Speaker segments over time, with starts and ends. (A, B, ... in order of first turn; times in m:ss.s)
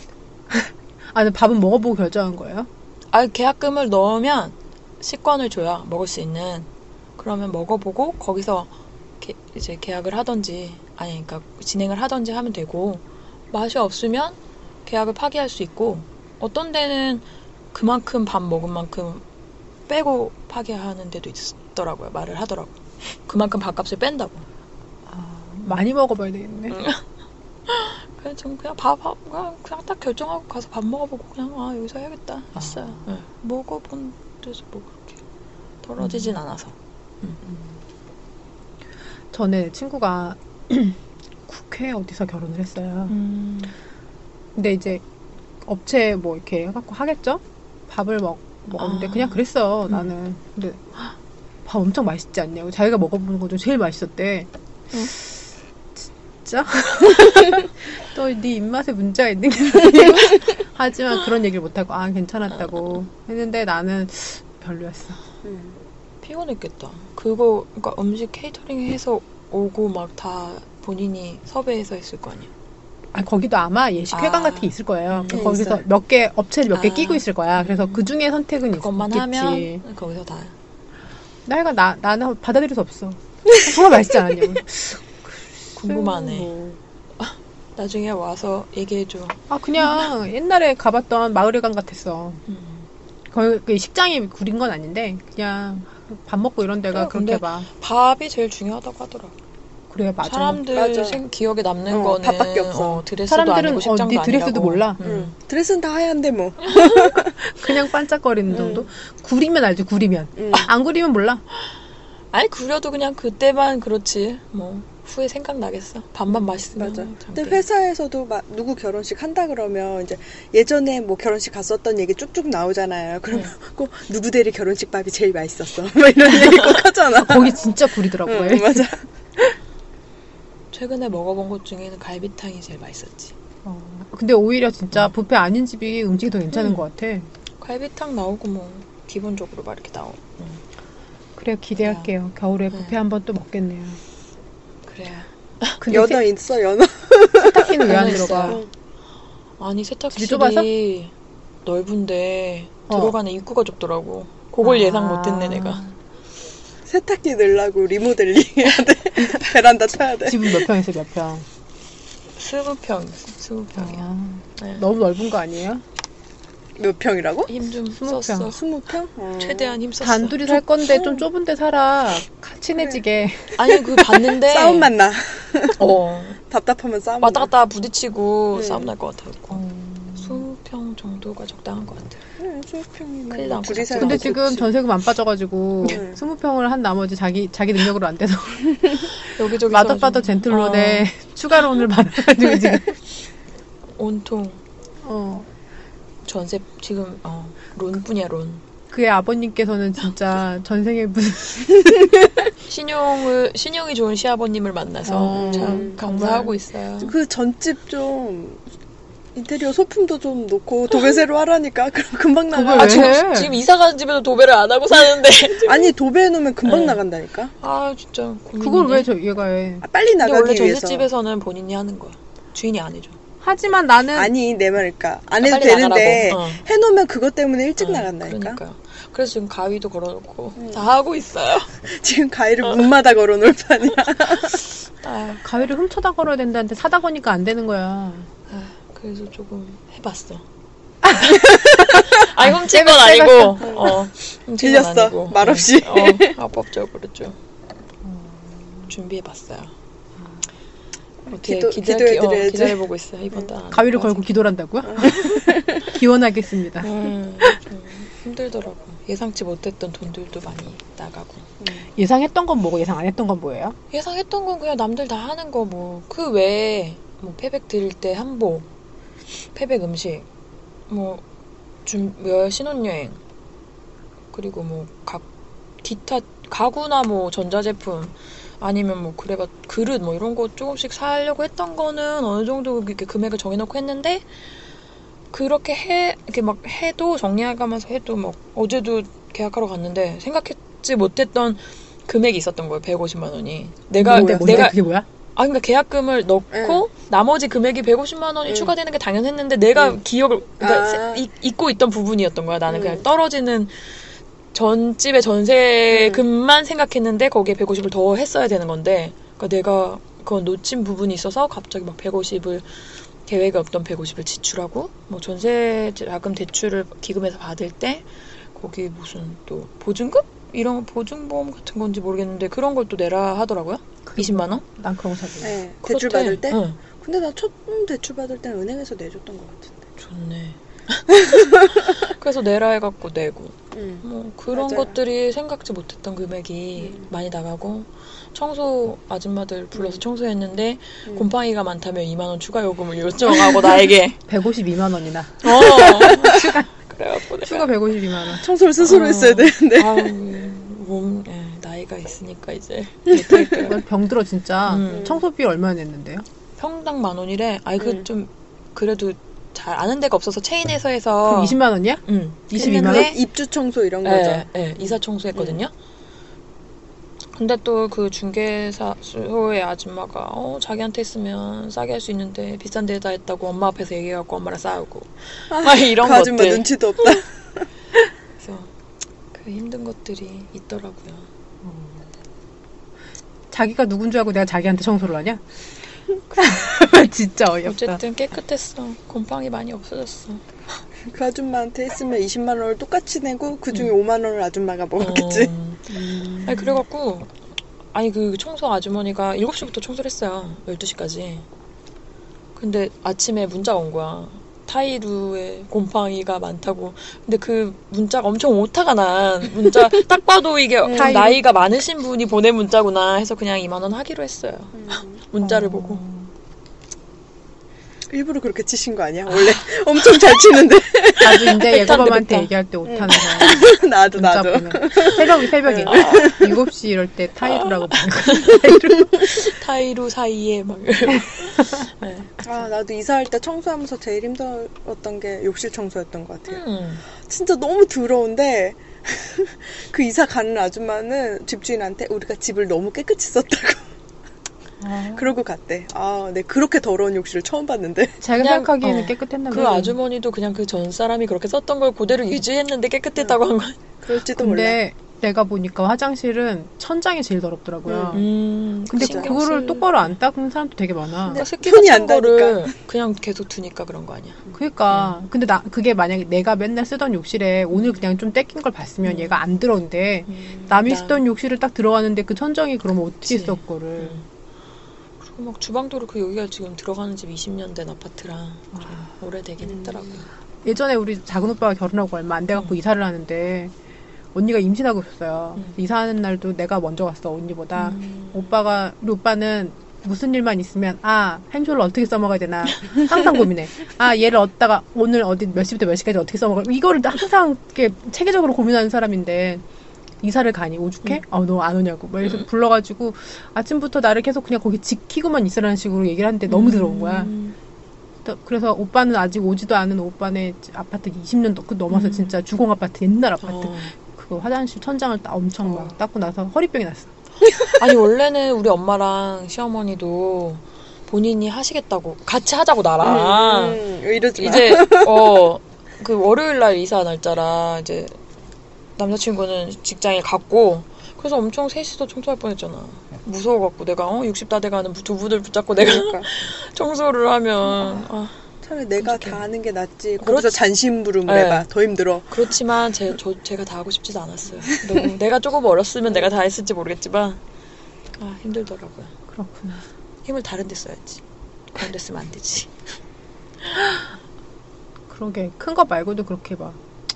0:00.5-0:02.7 A
0:03.1-0:19.2 B
0:19.9-0:24.4 B
0:25.1-0:26.8 A
0:26.7-0:27.0 B
0:27.7-0:35.2 B
0:32.6-0:33.0 A
0:35.8-0:37.4 B
0:36.0-0:36.4 A
0:37.4-0:37.7 A
0:39.3-0:43.2 A
0:43.1-0:43.7 B
0:44.6-0:45.0 A
0:45.6-0:54.5 A
0:48.8-0:50.1 B
0:56.0-1:05.2 A
1:05.4-1:05.8 C
1:06.2-1:12.5 B
1:13.1-1:19.8 A
1:14.1-1:15.6 B
1:15.3-1:15.8 C
1:16.7-1:18.0 B
1:18.8-1:20.5 B
1:21.5-1:26.8 A
1:25.8-1:26.5 B
1:27.2-1:29.9 B
1:29.5-1:32.4 A
1:32.5-1:32.8 B
1:33.3-1:37.7 A
1:36.9-1:39.3 B
1:39.9-1:40.6 A
1:40.2-1:45.3 B
1:40.7-1:41.2 C
1:41.9-1:43.0 C
1:43.3-1:45.0 A
1:45.0-1:47.4 C
1:46.6-1:47.1 B
1:47.4-1:51.4 A
1:48.5-1:48.8 B
1:48.5-1:48.8 C
1:50.4-1:50.7 C
1:52.3-1:57.6 B
1:56.8-2:09.0 C
2:06.4-2:06.8 B
2:07.2-2:08.9 A
2:10.7-2:13.3 B
2:13.6-2:17.3 A
2:16.5-2:16.8 B
2:17.6-2:20.6 B
2:21.4-2:24.0 A
2:21.8-2:22.1 B
2:24.9-2:25.8 B
2:25.8-2:26.2 A
2:25.9-2:28.7 C
2:27.4-2:28.6 A
2:27.8-2:28.6 B
2:29.6-2:31.1 B
2:30.1-2:30.7 A
2:31.6-2:35.8 B
2:32.9-2:33.2 A
2:34.6-2:35.9 A
2:36.9-2:40.7 C
2:40.2-2:41.4 A
2:42.4-2:44.8 B
2:43.8-2:45.8 A
2:46.8-2:47.5 C
2:47.5-2:48.6 B
2:47.9-2:48.5 A
2:48.5-2:49.8 C
2:49.4-2:50.6 B
2:50.0-2:53.6 A
2:50.9-2:51.2 C
2:53.6-2:54.9 B
2:53.9-2:55.9 C
2:55.8-2:56.4 B
2:56.5-2:57.5 C
2:57.2-3:02.2 B
2:58.5-2:58.9 C
2:59.6-3:00.4 A
3:02.4-3:04.7 C
3:03.3-3:04.5 B
3:04.0-3:13.0 A
3:05.8-3:06.2 C
3:09.2-3:11.1 B
3:14.0-3:14.6 B
3:15.0-3:15.5 A
3:16.2-3:18.6 B
3:18.9-3:22.3 A
3:22.7-3:27.1 B
3:25.0-3:26.5 A
3:25.4-3:26.0 C
3:27.0-3:28.6 C
3:29.4-3:33.2 C
3:32.5-3:33.5 A
3:32.7-3:35.9 B
3:35.6-3:37.5 C
3:36.6-3:37.0 B
3:37.6-3:39.1 B
3:38.6-3:39.8 A
3:39.8-3:41.1 C
3:40.2-3:43.2 B
3:43.4-3:44.3 A
3:44.2-3:48.6 C
3:45.4-3:46.6 B
3:47.8-3:51.7 B
3:50.6-3:50.8 C
3:51.8-3:54.6 C
3:54.3-3:55.4 B
3:55.4-3:58.3 A
3:58.5-4:00.4 B
4:01.0-4:03.6 A
4:01.1-4:07.4 B
4:03.6-4:04.0 C
4:04.6-4:06.3 C
4:08.0-4:08.9 A
4:08.9-4:09.7 B
4:11.3-4:14.3 B
4:11.3-4:12.8 C
4:13.7-4:16.9 A
4:14.9-4:15.9 C
4:16.8-4:21.5 B
4:21.6-4:21.9 C
4:22.0-4:23.8 A
4:23.9-4:28.7 B
4:29.4-4:30.3 B
4:30.9-4:31.2 B
4:31.8-4:33.2 B
4:34.3-4:35.2 B
4:35.8-4:44.2 B
4:45.3-4:54.8 B
4:54.0-4:54.7 C
4:54.0-4:55.1 A
4:55.4-5:04.0 B
4:56.5-4:56.8 C
4:58.5-4:58.7 C
5:00.6-5:01.2 C
5:02.7-5:03.0 C
5:04.5-5:24.6 B
5:05.9-5:06.2 C
5:24.1-5:25.6 A
5:25.4-5:29.8 C
5:25.8-5:26.8 B
5:30.0-5:44.2 B
5:33.7-5:35.0 C
5:36.8-5:37.1 C
5:39.8-5:40.0 C
5:44.3-5:46.6 A
5:45.4-5:47.7 B
5:47.4-5:48.4 A
5:48.3-5:50.2 C
5:48.8-5:53.8 B
5:53.1-5:53.6 C
5:53.6-5:56.2 A
5:54.7-5:55.2 B
5:54.9-5:55.2 C
5:56.6-6:03.2 B
5:57.8-5:58.0 C
6:01.2-6:03.2 A
6:02.6-6:05.6 C
6:04.0-6:05.7 B
6:07.4-6:16.7 B
6:15.5-6:17.6 C
6:18.4-6:18.7 B
6:19.3-6:21.3 B
6:21.6-6:22.1 A
6:23.5-6:25.4 A
6:26.3-6:28.0 A
6:26.4-6:26.7 B
6:27.6-6:30.4 B
6:31.1-6:35.5 C
6:35.0-6:37.3 B
6:36.1-6:36.5 C
6:37.9-6:41.4 B
6:42.6-6:56.0 B
6:50.8-6:51.2 C
6:50.9-6:51.4 A
6:54.8-6:55.2 C
6:55.4-6:56.3 A
6:58.1-7:01.7 C
6:59.3-6:59.6 B
7:01.2-7:09.4 A
7:01.5-7:02.5 B
7:02.9-7:06.6 C
7:05.9-7:06.4 B
7:07.6-7:12.4 B
7:12.4-7:23.9 C
7:16.5-7:17.0 B
7:24.8-7:25.3 A
7:25.1-7:28.2 C
7:28.2-7:30.0 A
7:28.4-7:33.8 B
7:34.0-7:34.8 C
7:34.4-7:38.3 A
7:37.9-7:38.2 C
7:38.1-7:40.1 B
7:38.9-7:41.4 A
7:39.0-7:39.3 C
7:41.3-7:42.7 C
7:41.3-7:44.4 B
7:44.6-7:54.2 A
7:49.0-7:49.4 B
7:50.3-7:51.2 B
7:53.3-7:54.2 B
7:55.2-8:00.3 B
7:59.6-8:00.1 C
8:00.6-8:03.7 A
8:04.3-8:19.6 A
8:07.8-8:08.5 B
8:20.2-8:27.3 A
8:26.5-8:27.6 B
8:28.2-8:37.1 A
8:31.9-8:32.3 B
8:33.4-8:33.9 B
8:35.7-8:35.9 B
8:37.4-8:43.8 B
8:43.0-8:45.5 C
8:44.4-8:48.1 B
8:49.0-8:58.4 B
8:55.8-8:56.3 C
8:57.8-8:58.0 C
8:58.6-9:02.4 C
8:59.0-8:59.4 B
9:00.2-9:00.6 B
9:01.3-9:01.7 B
9:02.3-9:07.4 B
9:08.2-9:09.1 B
9:09.3-9:09.8 A
9:10.2-9:11.2 B
9:11.7-9:12.7 B
9:15.1-9:16.8 A